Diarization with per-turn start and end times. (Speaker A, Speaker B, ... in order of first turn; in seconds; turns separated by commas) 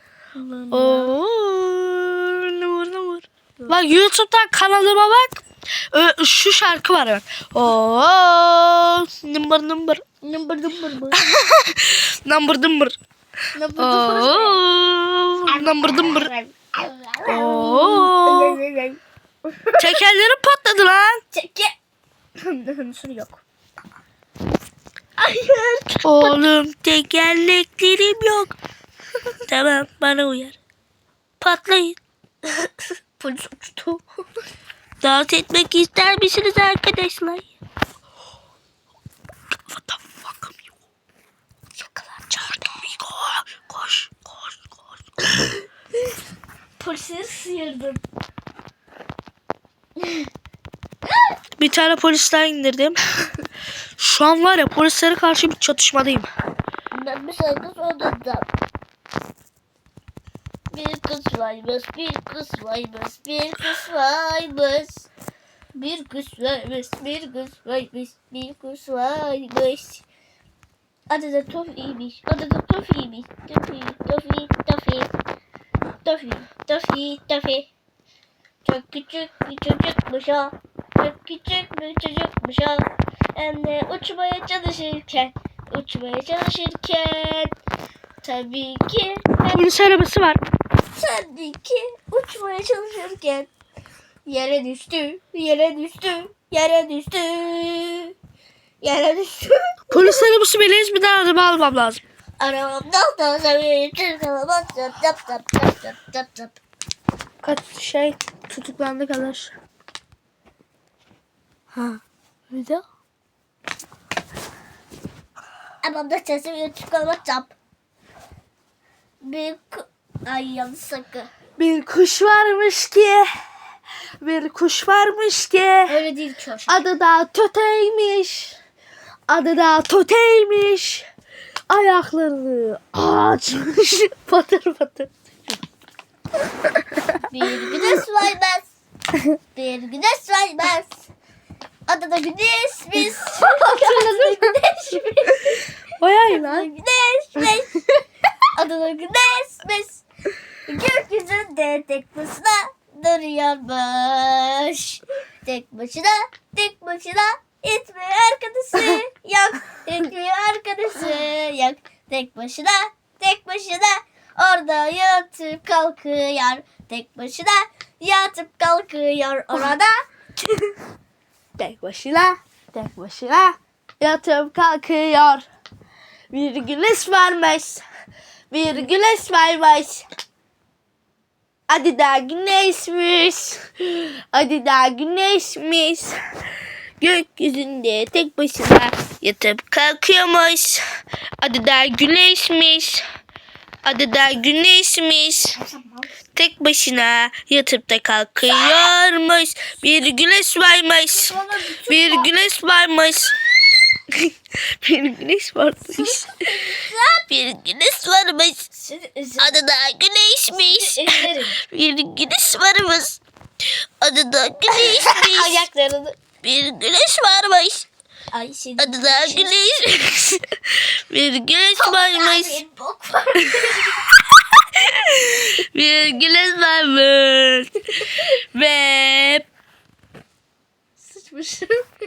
Speaker A: 0.3-1.1, Speaker B: 0.7-10.0, Speaker A: 10.2-11.2, Speaker B: 11.2-12.9, Speaker A: 13.5-14.6, Speaker B: 13.8-16.3, Speaker A: 15.5-19.9, Speaker B: 17.3-18.6, Speaker B: 19.8-21.2, Speaker A: 21.3-21.8, Speaker A: 22.4-23.4, Speaker A: 25.2-26.4, Speaker B: 26.0-28.6, Speaker B: 29.5-30.6, Speaker B: 31.4-32.0, Speaker A: 32.5-34.0, Speaker B: 35.0-37.5, Speaker B: 39.7-40.6, Speaker A: 41.8-42.7, Speaker B: 42.6-44.8, Speaker A: 46.8-48.0, Speaker A: 50.0-50.3, Speaker B: 51.6-53.0, Speaker B: 54.0-56.3, Speaker A: 56.9-58.5, Speaker A: 60.7-65.1, Speaker A: 65.8-70.0, Speaker A: 71.1-75.1, Speaker A: 76.0-77.7, Speaker A: 78.6-87.5, Speaker A: 88.2-89.7, Speaker B: 89.5-90.4, Speaker A: 90.9-93.5, Speaker A: 94.2-98.1, Speaker A: 98.8-100.2, Speaker B: 99.9-102.0, Speaker A: 102.4-106.6, Speaker B: 107.4-109.6, Speaker B: 112.5-112.8, Speaker A: 115.8-117.5, Speaker A: 119.2-121.3, Speaker B: 121.6-123.3, Speaker B: 124.2-126.0, Speaker A: 125.9-126.8, Speaker B: 126.7-128.6, Speaker B: 129.3-131.1, Speaker B: 131.7-135.6, Speaker A: 137.2-138.7, Speaker A: 139.5-141.1, Speaker A: 141.9-145.7, Speaker B: 143.0-144.5, Speaker B: 146.0-146.7, Speaker A: 146.3-147.9, Speaker A: 148.5-150.0, Speaker A: 150.7-169.9, Speaker B: 171.6-175.5, Speaker B: 176.3-177.8, Speaker B: 178.5-180.1, Speaker B: 181.7-186.2, Speaker B: 187.0-190.8, Speaker B: 191.4-193.1, Speaker B: 193.8-195.6, Speaker A: 195.6-196.1, Speaker B: 196.3-203.4, Speaker A: 201.1-202.3, Speaker B: 204.1-206.7, Speaker A: 206.0-207.3, Speaker B: 207.3-208.7, Speaker A: 208.7-209.6, Speaker B: 209.4-213.2, Speaker A: 210.5-211.6, Speaker B: 214.0-215.6, Speaker A: 214.7-216.2, Speaker B: 216.4-217.9, Speaker A: 218.3-219.6, Speaker B: 218.8-222.6, Speaker A: 221.8-224.1, Speaker B: 223.4-229.5, Speaker A: 231.0-231.8